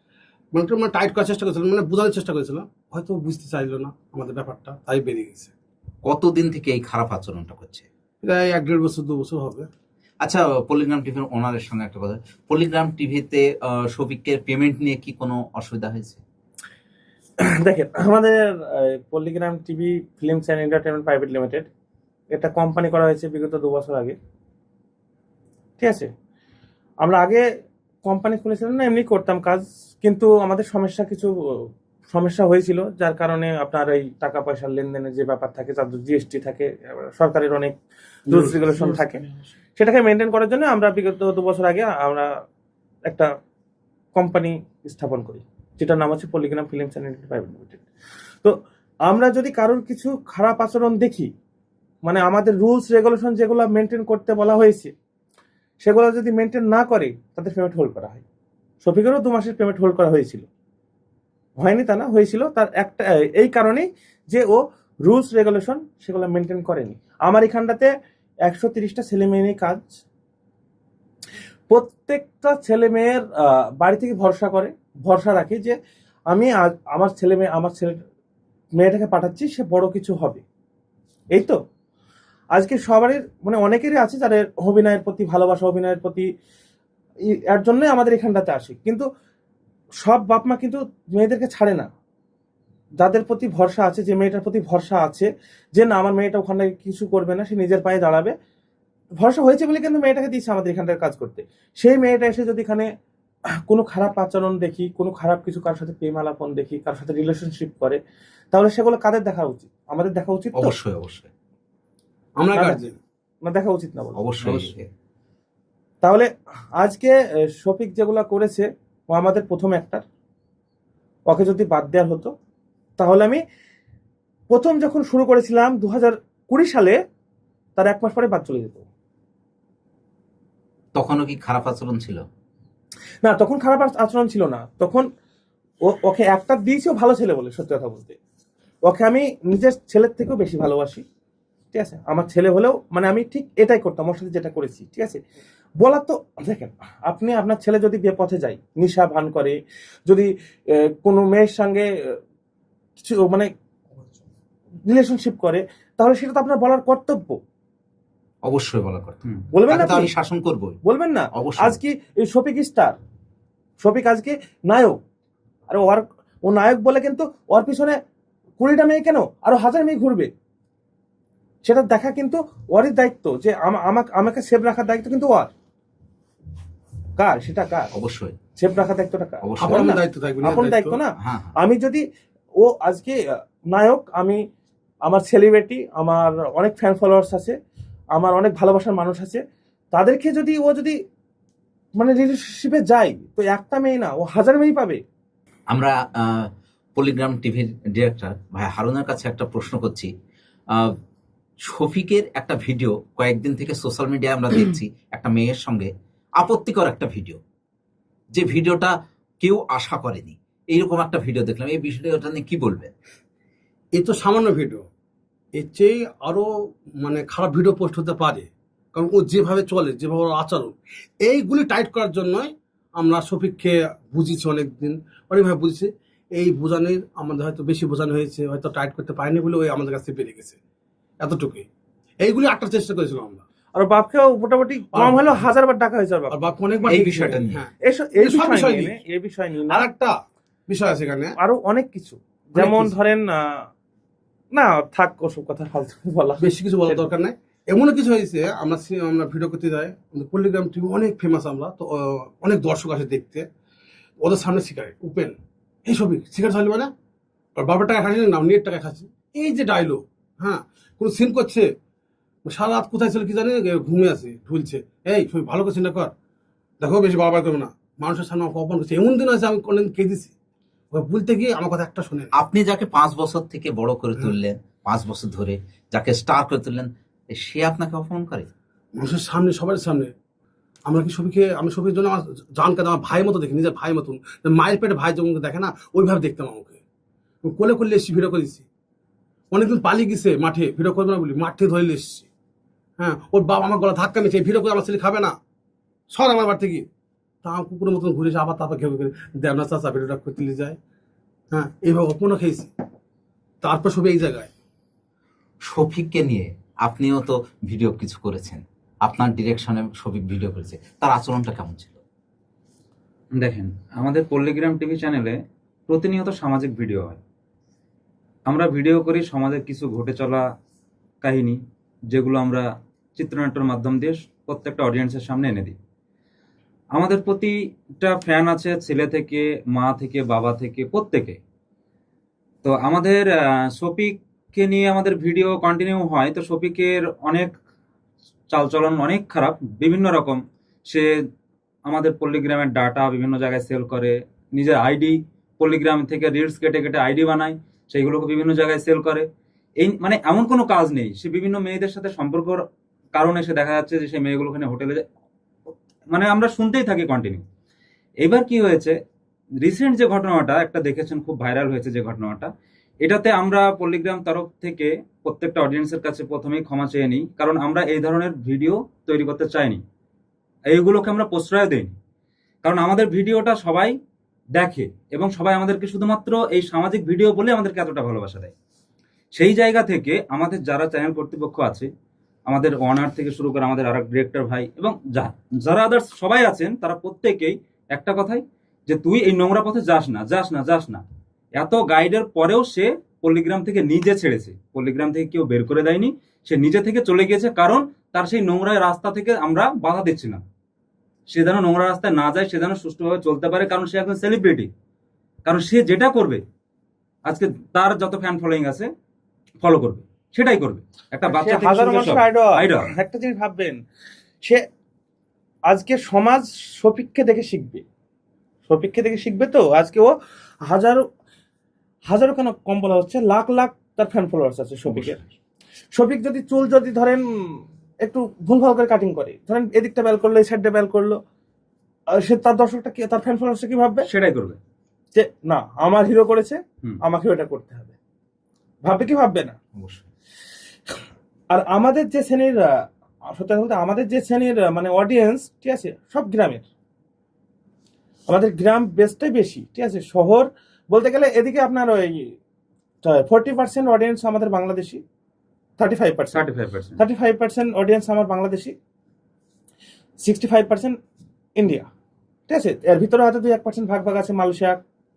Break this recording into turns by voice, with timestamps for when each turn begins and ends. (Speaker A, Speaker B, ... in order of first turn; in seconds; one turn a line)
Speaker A: 0.5-5.5
Speaker B: 6.0-7.9
Speaker A: 8.2-9.7
Speaker B: 10.2-16.2
Speaker C: 17.4-21.7
Speaker C: 22.3-24.2
Speaker C: 25.8-26.1
Speaker C: 27.0-27.4
Speaker C: 28.0-37.8
Speaker C: 38.3-39.2
Speaker A: 38.3-38.9
Speaker C: 39.8-42.3
Speaker C: 44.1-47.8
Speaker C: 48.4-51.3
Speaker C: 52.0-54.9
Speaker C: 55.8-58.2
Speaker C: 58.8-60.5
Speaker C: 61.6-67.9
Speaker C: 68.5-70.0
Speaker C: 71.7-75.8
Speaker C: 76.3-78.0
Speaker C: 78.8-80.4
Speaker C: 81.3-81.6
Speaker C: 82.5-86.3
Speaker C: 87.5-89.0
Speaker C: 90.0-91.9
Speaker C: 93.0-98.3
Speaker C: 99.2-102.9
Speaker C: 103.7-108.0
Speaker C: 108.5-110.8
Speaker B: 110.5-111.3
Speaker A: 112.4-113.0
Speaker C: 112.5-112.8
Speaker C: 113.4-114.2
Speaker B: 114.2-114.9
Speaker D: 114.4-114.7
Speaker C: 116.0-120.0
Speaker C: 121.3-122.3
Speaker C: 123.0-123.4
Speaker C: 124.5-127.0
Speaker C: 127.8-128.8
Speaker B: 130.9-132.3
Speaker C: 133.2-135.1
Speaker C: 135.8-138.2
Speaker C: 138.8-141.0
Speaker C: 141.7-145.2
Speaker C: 145.8-149.6
Speaker C: 150.1-152.2
Speaker C: 153.0-153.5
Speaker C: 154.8-157.4
Speaker B: 158.4-160.8
Speaker C: 159.5-160.1
Speaker C: 160.8-163.0
Speaker B: 161.3-161.8
Speaker C: 163.8-165.0
Speaker C: 165.7-168.0
Speaker C: 168.6-170.3
Speaker C: 171.6-175.5
Speaker C: 177.2-177.9
Speaker B: 177.9-178.4
Speaker C: 178.6-182.1
Speaker B: 179.4-179.9
Speaker A: 179.6-181.0
Speaker B: 181.2-181.6
Speaker C: 182.6-184.4
Speaker C: 185.0-187.6
Speaker C: 188.2-191.0
Speaker C: 191.9-195.0
Speaker B: 195.7-200.1
Speaker B: 200.7-201.0
Speaker B: 201.6-207.4
Speaker B: 208.3-212.9
Speaker A: 213.9-214.9
Speaker A: 215.6-216.5
Speaker A: 217.0-230.6
Speaker A: 231.2-231.7
Speaker A: 232.2-233.4
Speaker C: 233.8-236.4
Speaker A: 234.9-235.4
Speaker A: 236.3-238.9
Speaker B: 236.9-237.7
Speaker C: 237.8-239.9
Speaker A: 239.7-240.2
Speaker A: 240.7-241.4
Speaker C: 241.4-243.7
Speaker A: 242.6-242.9
Speaker C: 244.5-247.1
Speaker A: 246.4-253.5
Speaker A: 254.2-256.9
Speaker A: 257.6-261.7
Speaker A: 262.5-266.1
Speaker A: 266.8-270.3
Speaker A: 270.9-272.3
Speaker B: 272.4-278.5
Speaker A: 279.0-280.1
Speaker A: 280.9-286.8
Speaker A: 287.4-288.7
Speaker A: 289.5-292.3
Speaker A: 293.0-295.4
Speaker A: 296.1-296.9
Speaker A: 297.4-300.8
Speaker A: 301.5-302.7
Speaker A: 303.6-304.5
Speaker B: 305.6-312.0
Speaker D: 313.4-317.2
Speaker D: 318.5-320.5
Speaker D: 321.2-321.6
Speaker D: 322.1-325.8
Speaker D: 326.9-331.4
Speaker D: 332.6-337.6
Speaker D: 338.5-341.2
Speaker D: 341.9-349.3
Speaker D: 349.8-355.0
Speaker D: 356.1-357.4
Speaker D: 358.2-358.9
Speaker D: 359.6-362.5
Speaker D: 363.0-369.8
Speaker D: 370.7-371.9
Speaker D: 372.6-374.0
Speaker D: 374.5-378.5
Speaker D: 379.3-381.9
Speaker D: 382.5-391.0
Speaker D: 391.6-400.4
Speaker D: 401.3-404.7
Speaker D: 405.4-406.4
Speaker D: 407.2-408.9
Speaker D: 409.6-412.9
Speaker C: 411.3-413.8
Speaker C: 415.7-417.8
Speaker C: 418.7-420.1
Speaker C: 420.7-421.1
Speaker C: 422.1-425.2
Speaker C: 425.9-431.2
Speaker C: 432.1-434.1
Speaker D: 434.0-434.6
Speaker C: 435.1-437.9
Speaker C: 438.8-439.6
Speaker B: 439.8-440.1
Speaker C: 441.5-446.6
Speaker C: 448.3-452.4
Speaker C: 453.0-455.0
Speaker C: 455.8-456.5
Speaker D: 456.3-457.0
Speaker C: 457.0-458.8
Speaker C: 460.2-461.0
Speaker C: 461.6-461.9
Speaker C: 462.5-464.8